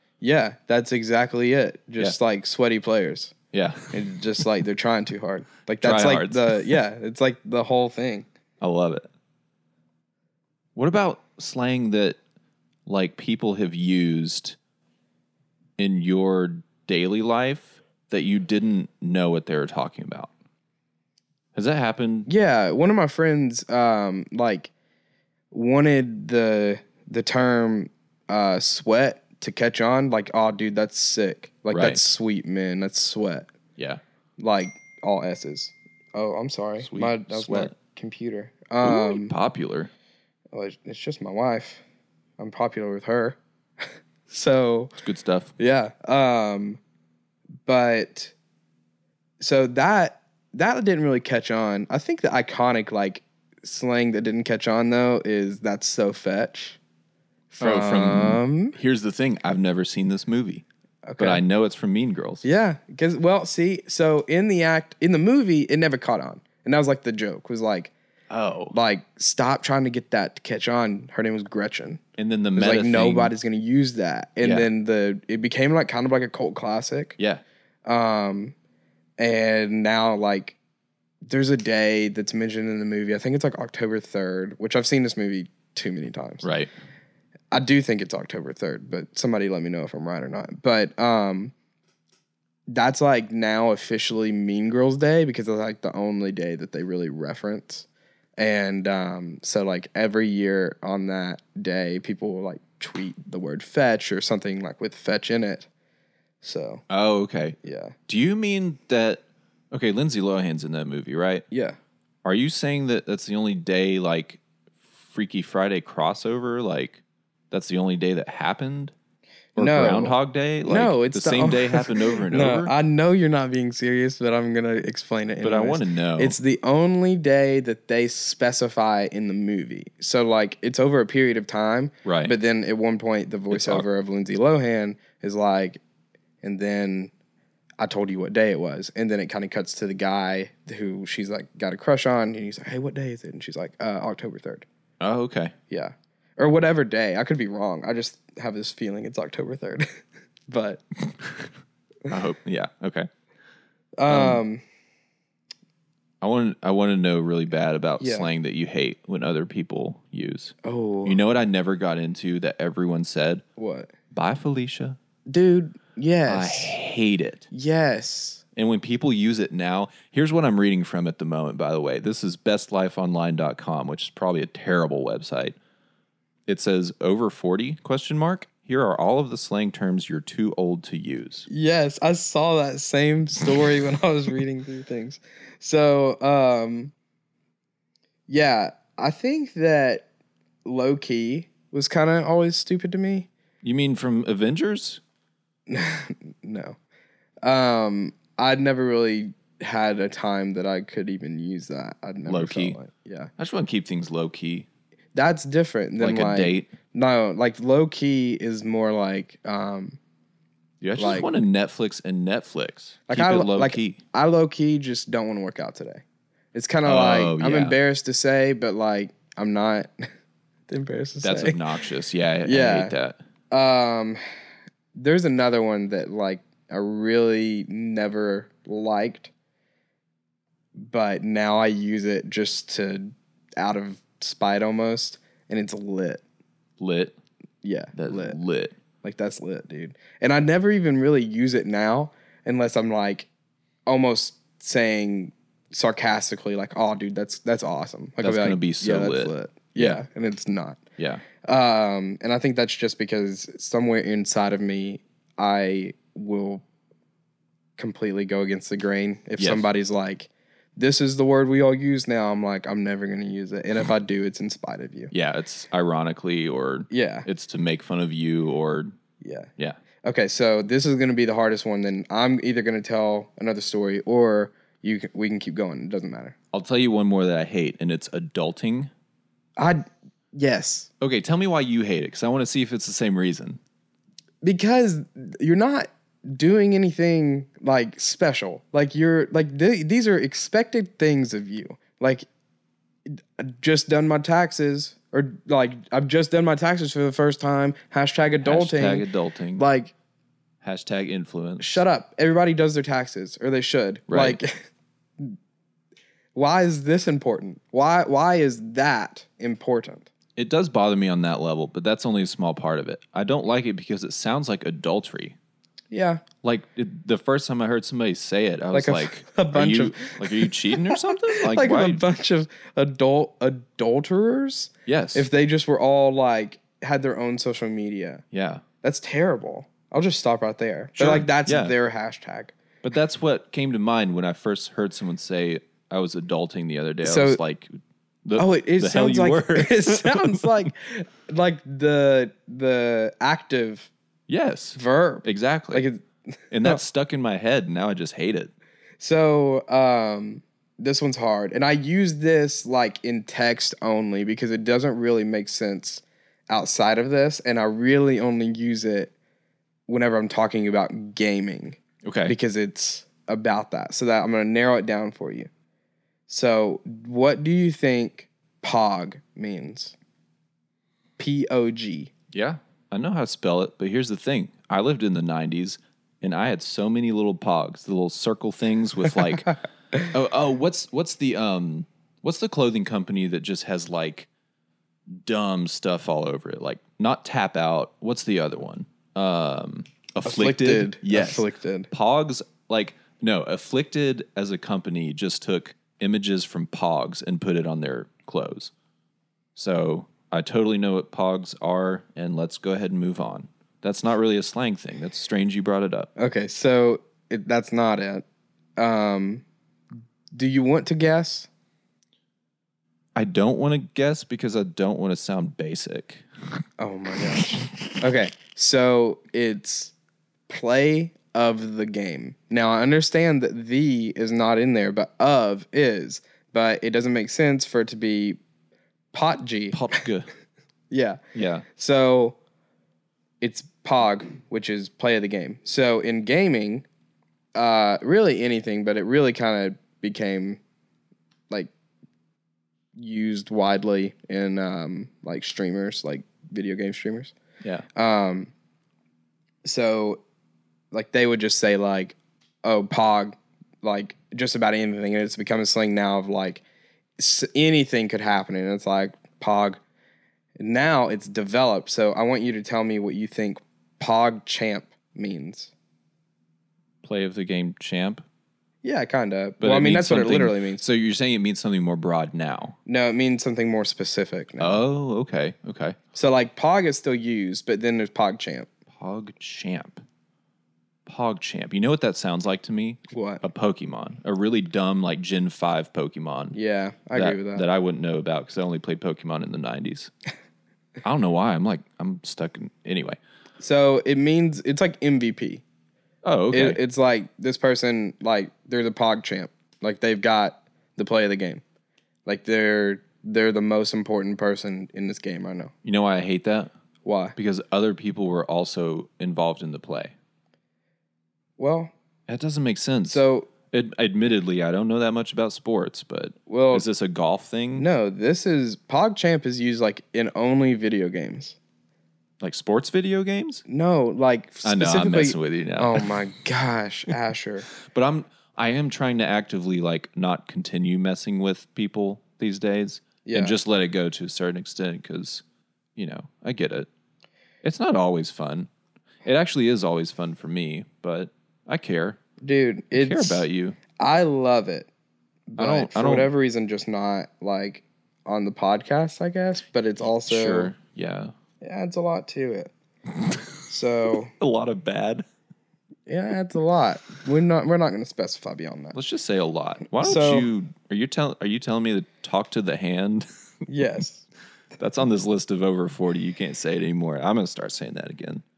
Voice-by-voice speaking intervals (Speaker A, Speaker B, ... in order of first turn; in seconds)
Speaker A: 0.2-3.3, 3.9-8.3, 22.3-24.7, 25.5-33.5, 34.4-39.3, 40.5-41.8, 42.4-43.4, 44.3-44.9, 45.6-46.8, 47.6-48.3, 49.4-56.8, 57.5-58.8, 61.1-61.4, 62.4-67.9, 68.7-72.0, 72.5-77.2, 77.9-78.5, 79.2-80.6, 81.2-86.4, 87.5-91.5, 92.7-105.7, 106.4-106.8, 107.6-108.0, 111.5-111.8, 119.5-135.8, 136.4-137.1, 137.8-144.6, 145.7-150.8, 154.0-154.6, 158.0-158.3, 160.6-161.2, 163.6-163.9, 165.3-166.8, 167.5-168.4, 181.5-186.9, 188.3-190.1, 190.6-193.3, 195.7-196.8, 197.4-203.3, 205.1-210.0, 211.0-211.3, 213.1-216.0, 216.5-220.1, 220.7-221.6, 222.4-222.9, 223.5-224.2, 224.9-229.3, 230.7-236.2, 237.6-238.4, 239.0-243.3, 243.9-250.8, 251.4-256.6, 257.8-265.1, 266.9-267.3, 269.2-269.5, 270.0-276.4, 279.6-280.9, 284.4-292.2, 293.1-299.1, 299.6-299.9, 301.6-304.6, 306.4-310.1, 315.9-316.2, 318.7-328.2, 328.8-332.6, 337.0-337.4, 338.4-343.9, 344.8-346.1, 349.0-359.1, 359.9-365.5, 366.3-369.9, 371.2-372.1, 390.2-391.9, 406.2-408.2, 408.8-409.4, 410.3-411.5, 416.8-419.9, 420.5-428.4, 429.1-429.8, 430.9-431.2, 431.7-432.4, 433.4-436.9, 437.6-440.6, 442.9-447.3, 447.9-448.5, 449.6-450.2, 450.9-456.6, 457.2-459.8, 460.6-465.7, 468.8-470.8, 472.9-474.8, 476.1-478.7, 483.1-483.4, 486.5-487.6, 493.6-495.6, 496.5-501.6, 502.2-505.7, 507.0-507.4, 511.6-511.9, 513.1-513.5, 516.5-516.9, 517.8-521.6, 523.7-527.7, 533.2-533.6, 542.4-544.9, 545.5-550.7, 551.6-552.7, 553.7-554.3, 556.1-559.0, 560.0-560.5, 563.7-564.2
Speaker B: 3.5-4.0, 5.8-6.8, 8.6-9.1, 10.8-12.2, 12.9-14.6, 15.8-20.3, 21.5-22.3, 31.7-32.0, 36.8-37.7, 38.8-39.9, 45.0-45.5, 57.6-60.6, 61.2-62.4, 68.3-68.8, 72.2-73.3, 74.4-74.7, 77.2-77.4, 86.4-86.7, 106.9-111.4, 112.2-114.4, 114.9-118.9, 119.5-122.7, 125.4-126.4, 132.0-132.3, 133.5-133.8, 145.0-145.6, 152.1-153.1, 154.1-154.4, 156.2-163.4, 164.1-165.0, 166.3-167.5, 168.6-175.6, 176.5-181.5, 193.6-195.0, 202.3-202.8, 203.4-204.7, 206.0-206.7, 210.8-214.0, 216.8-217.8, 221.2-223.2, 236.8-237.2, 237.9-238.7, 248.2-250.0, 251.0-251.2, 259.4-259.7, 265.1-268.9, 276.5-278.9, 281.0-283.6, 298.4-299.6, 300.6-301.8, 304.1-304.4, 310.4-315.4, 316.4-322.1, 324.9-325.3, 328.3-328.6, 331.0-331.7, 332.8-340.7, 344.3-345.9, 346.5-348.5, 362.0-362.4, 372.3-384.3, 385.1-398.7, 399.6-406.1, 413.1-416.2, 429.7-430.3, 431.4-431.6, 467.0-468.2, 469.6-472.8, 474.6-476.0, 478.9-480.0, 481.1-486.6, 487.1-490.1, 491.0-493.2, 496.2-496.8, 505.8-506.7, 507.4-510.1, 512.3-517.9, 522.4-523.6, 524.6-526.1, 527.9-535.4, 536.0-536.9, 537.6-538.7, 539.2-542.2, 542.9-543.8, 545.6-546.3, 550.2-551.3, 554.4-555.2, 558.9-563.2, 564.8-568.4